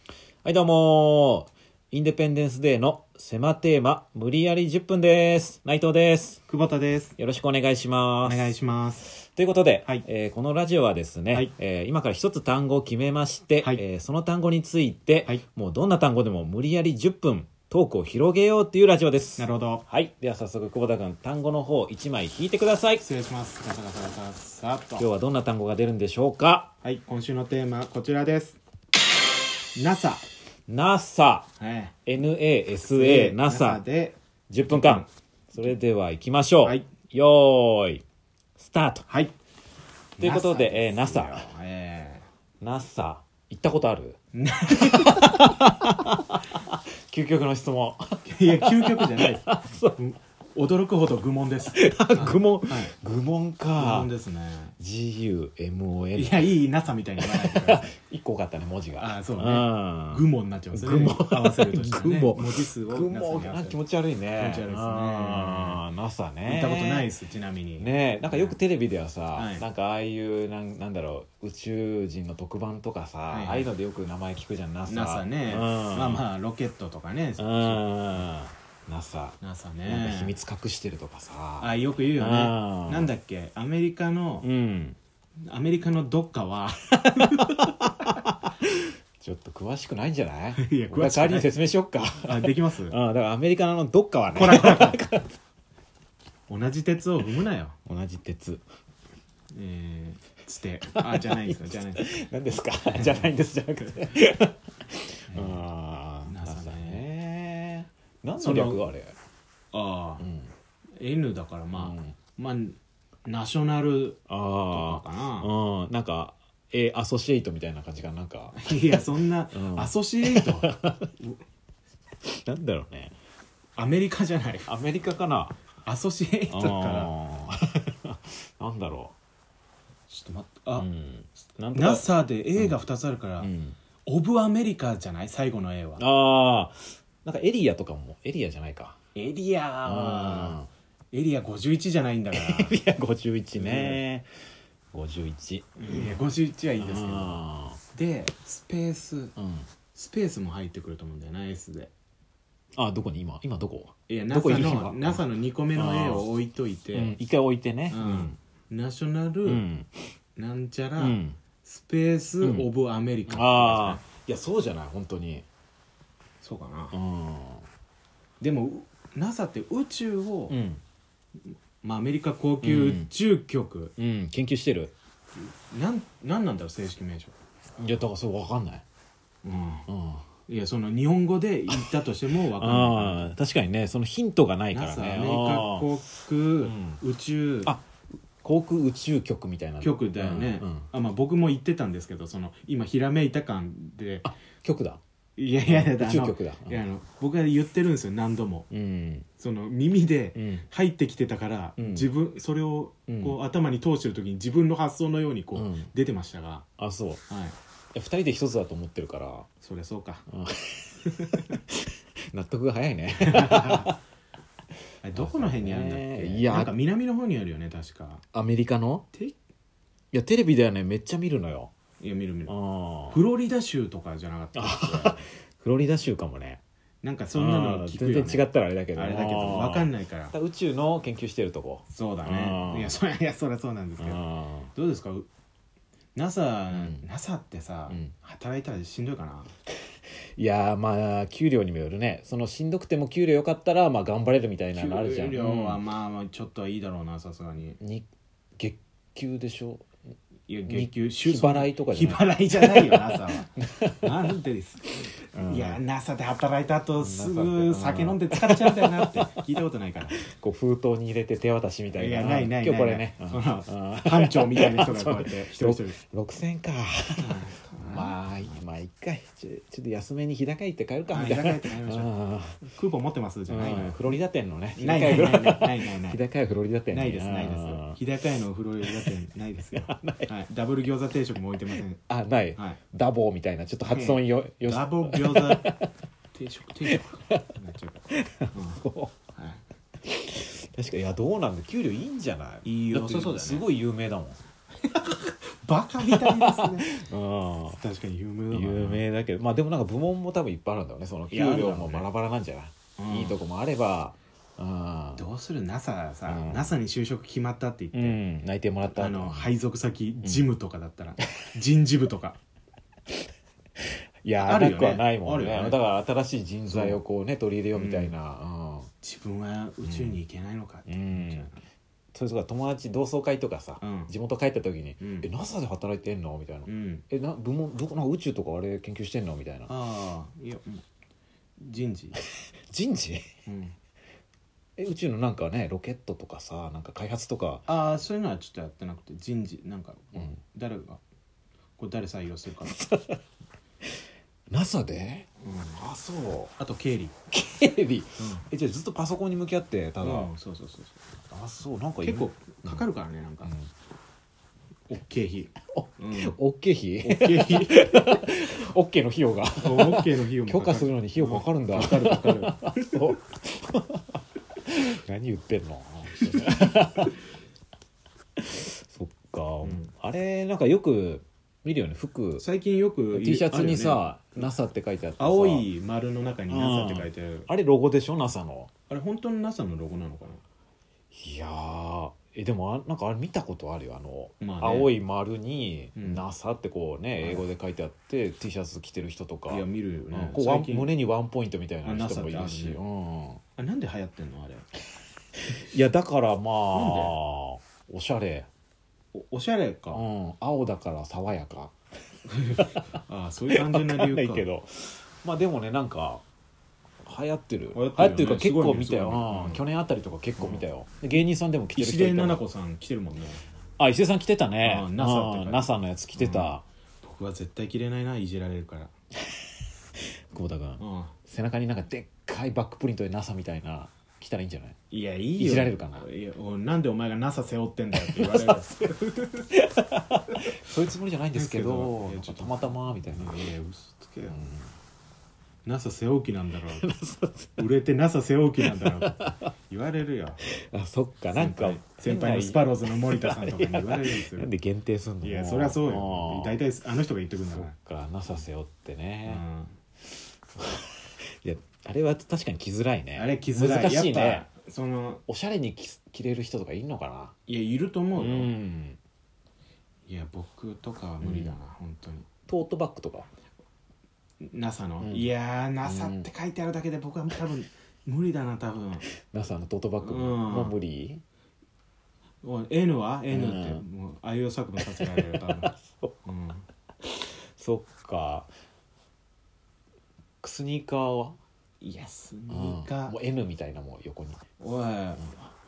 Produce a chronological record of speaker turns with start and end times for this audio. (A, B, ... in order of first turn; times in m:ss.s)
0:00.4-0:06.4 A
0:06.5-0:07.2 B
0:07.2-0:08.5 A
0:08.2-0:09.1 B
0:09.2-0:23.0 A
0:19.4-0:19.8 B
0:23.0-0:25.1 B
0:25.0-0:26.7 A
0:26.8-0:28.6 B
0:29.7-0:30.2 B
0:30.7-0:31.5 A
0:31.6-0:32.0 B
0:32.0-0:33.8 A
0:32.8-0:35.1 B
0:34.5-0:38.0 A
0:36.6-0:36.9 B
0:38.6-0:39.0 A
0:39.1-0:39.3 B
0:40.2-0:42.2 B
0:40.2-0:41.4 A
0:42.6-0:44.2 A
0:44.3-0:45.4 B
0:44.8-0:50.0 A
0:48.2-0:52.9 B
0:51.7-0:54.1 A
0:53.8-0:54.7 B
0:54.8-0:56.5 A
0:56.1-0:57.9 B
0:57.2-1:07.1 A
0:59.0-1:03.8 B
1:04.4-1:05.8 B
1:06.4-1:08.6 B
1:07.8-1:16.2 A
1:09.3-1:09.6 B
1:13.3-1:13.7 B
1:14.9-1:18.2 B
1:17.4-1:23.1 A
1:19.4-1:20.4 B
1:21.6-1:24.5 B
1:24.4-1:25.0 A
1:25.4-1:27.7 B
1:27.2-1:35.3 A
1:30.6-1:31.5 B
1:32.2-1:33.0 B
1:34.3-1:35.0 B
1:36.5-1:37.8 B
1:37.8-1:38.6 A
1:39.5-1:42.2 B
1:41.0-1:49.1 A
1:42.9-1:43.3 B
1:45.3-1:45.6 B
1:46.2-1:47.0 B
1:48.4-1:48.8 B
1:49.7-1:50.2 B
1:50.2-1:50.5 A
1:51.0-1:55.5 B
1:51.7-1:52.2 A
1:54.3-1:59.0 A
1:58.6-2:00.7 B
1:59.5-2:01.1 A
2:02.3-2:03.1 A
2:03.8-2:04.7 B
2:04.7-2:05.6 A
2:05.8-2:07.1 B
2:06.5-2:09.1 A
2:10.1-2:10.9 B
2:10.8-2:12.0 A
2:11.7-2:13.5 B
2:13.4-2:13.8 A
2:14.0-2:16.0 B
2:16.0-2:19.0 A
2:19.1-2:20.6 B
2:19.8-2:20.7 A
2:21.1-2:22.8 B
2:22.3-2:24.3 A
2:23.5-2:24.0 B
2:24.9-2:26.2 A
2:25.8-2:27.4 B
2:26.8-2:27.8 A
2:27.9-2:29.3 B
2:29.4-2:29.7 A
2:29.9-2:31.9 B
2:32.8-2:36.2 A
2:34.1-2:37.1 B
2:36.9-2:38.4 A
2:37.9-2:39.6 B
2:39.4-2:39.9 A
2:40.4-2:44.0 B
2:41.0-2:41.4 A
2:43.3-2:45.4 A
2:46.4-2:47.0 B
2:46.9-2:47.6 A
2:48.4-2:50.6 B
2:50.5-2:50.8 A
2:51.5-2:53.9 B
2:52.6-2:53.1 A
2:54.0-2:54.9 A
2:55.7-2:57.3 B
2:57.8-2:58.8 A
2:59.4-2:59.9 B
2:59.9-3:00.2 A
3:00.5-3:03.3 B
3:02.6-3:05.9 A
3:04.7-3:07.7 B
3:06.6-3:07.0 A
3:08.4-3:10.9 A
3:09.8-3:14.3 B
3:14.2-3:15.0 A
3:15.4-3:18.7 B
3:15.6-3:16.8 A
3:18.7-3:19.2 A
3:19.4-3:26.6 B
3:20.3-3:20.6 A
3:21.8-3:22.1 A
3:23.1-3:23.4 A
3:25.5-3:25.9 A
3:26.8-3:27.2 A
3:27.3-3:27.6 B
3:27.9-3:29.5 A
3:29.6-3:30.2 B
3:30.3-3:34.0 A
3:31.1-3:31.3 B
3:33.2-3:33.9 B
3:35.0-3:38.2 B
3:35.1-3:36.7 A
3:38.3-3:39.1 A
3:40.1-3:41.7 A
3:42.0-3:42.5 B
3:42.5-3:43.2 A
3:43.1-3:45.2 B
3:44.5-3:46.6 A
3:47.0-3:50.3 B
3:47.3-3:53.0 A
3:51.9-3:54.2 B
3:54.0-3:54.7 A
3:54.7-3:55.3 B
3:56.1-3:59.5 B
3:56.7-3:57.0 A
4:00.4-4:05.8 A
4:04.7-4:07.8 B
4:07.8-4:08.1 A
4:08.6-4:09.8 A
4:10.5-4:20.2 B
4:10.7-4:14.1 A
4:15.3-4:15.8 A
4:17.0-4:19.3 A
4:20.1-4:27.3 A
4:21.9-4:26.0 B
4:27.2-4:28.6 B
4:27.8-4:32.6 A
4:31.1-4:32.1 B
4:32.6-4:34.1 B
4:33.5-4:38.0 A
4:34.8-4:36.2 B
4:36.9-4:42.0 B
4:39.8-4:40.3 A
4:42.1-4:45.9 A
4:43.9-4:45.7 B
4:46.3-4:49.6 B
4:46.9-4:47.4 A
4:48.1-4:49.1 A
4:50.0-4:54.4 A
4:52.6-4:53.7 B
4:54.8-4:56.9 B
4:56.1-4:57.8 A
4:57.7-4:59.0 B
4:58.5-5:05.2 A
5:01.3-5:02.1 B
5:03.0-5:03.4 B
5:05.2-5:08.2 B
5:06.2-5:06.7 A
5:07.9-5:09.5 A
5:08.9-5:12.4 B
5:14.2-5:18.9 A
5:14.4-5:15.8 B
5:16.7-5:17.0 B
5:17.7-5:18.1 B
5:19.0-5:21.6 B
5:19.8-5:20.2 A
5:20.9-5:21.5 A
5:22.1-5:29.7 A
5:23.8-5:24.1 B
5:25.0-5:25.3 B
5:26.6-5:27.0 B
5:29.7-5:30.8 B
5:31.6-5:32.2 B
5:32.7-5:33.2 A
5:33.4-5:33.8 B
5:34.8-5:37.6 A
5:37.6-5:41.0 B
5:41.8-5:42.8 B
5:42.8-5:43.2 A
5:44.5-5:46.5 A
5:45.4-5:45.8 B
5:46.6-5:47.1 B
5:47.3-5:50.3 A
5:48.2-5:48.4 B
5:50.0-5:51.0 B
5:51.3-5:52.8 A
5:52.0-5:53.5 B
5:53.4-5:53.7 A
5:54.9-5:56.4 B
5:55.7-6:04.0 A
5:57.0-5:58.2 B
5:59.6-6:03.1 B
6:04.6-6:07.2 A
6:08.4-6:12.4 A
6:09.6-6:09.9 B
6:12.4-6:14.5 B
6:13.1-6:15.7 A
6:15.2-6:17.5 B
6:16.5-6:18.7 A
6:18.9-6:20.4 B
6:21.1-6:33.4 A
6:24.4-6:24.9 B
6:26.0-6:26.2 B
6:27.2-6:27.4 B
6:29.5-6:31.0 B
6:31.8-6:32.8 B
6:33.6-6:34.7 B
6:35.5-6:38.5 A
6:36.7-6:37.2 B
6:39.1-6:40.0 B
6:39.9-6:41.7 A
6:42.3-6:44.5 B
6:43.5-6:46.2 A
6:47.0-6:52.4 A
6:47.7-6:49.6 B
6:50.4-6:50.6 B
6:51.7-6:53.4 B
6:53.8-6:56.6 A
6:54.6-6:58.9 B
7:00.3-7:04.8 A
7:00.8-7:01.1 B
7:04.9-7:09.5 B
7:05.4-7:06.0 A
7:08.1-7:08.6 A
7:09.5-7:13.4 A
7:11.3-7:14.4 B
7:14.3-7:14.7 A
7:15.6-7:16.9 B
7:16.8-7:17.7 A
7:17.6-7:20.4 B
7:18.6-7:19.3 A
7:20.6-7:26.6 A
7:21.3-7:24.5 B
7:25.2-7:27.7 B
7:27.5-7:29.4 A
7:29.2-7:29.7 B
7:30.6-7:34.4 A
7:33.1-7:35.2 B
7:35.3-7:37.3 A
7:37.4-7:38.5 B
7:38.1-7:39.0 A
7:40.1-7:42.2 B
7:41.2-7:41.6 A
7:42.5-7:43.3 A
7:44.4-7:49.0 B
7:45.0-7:45.3 A
7:45.8-7:46.3 A
7:49.2-7:51.2 A
7:50.0-7:50.7 B
7:52.4-7:56.6 B
7:53.3-7:53.8 A
7:54.8-7:55.4 A
7:57.0-7:58.5 A
8:00.4-8:01.4 A
8:01.8-8:03.2 B
8:02.5-8:04.4 A
8:04.6-8:05.3 B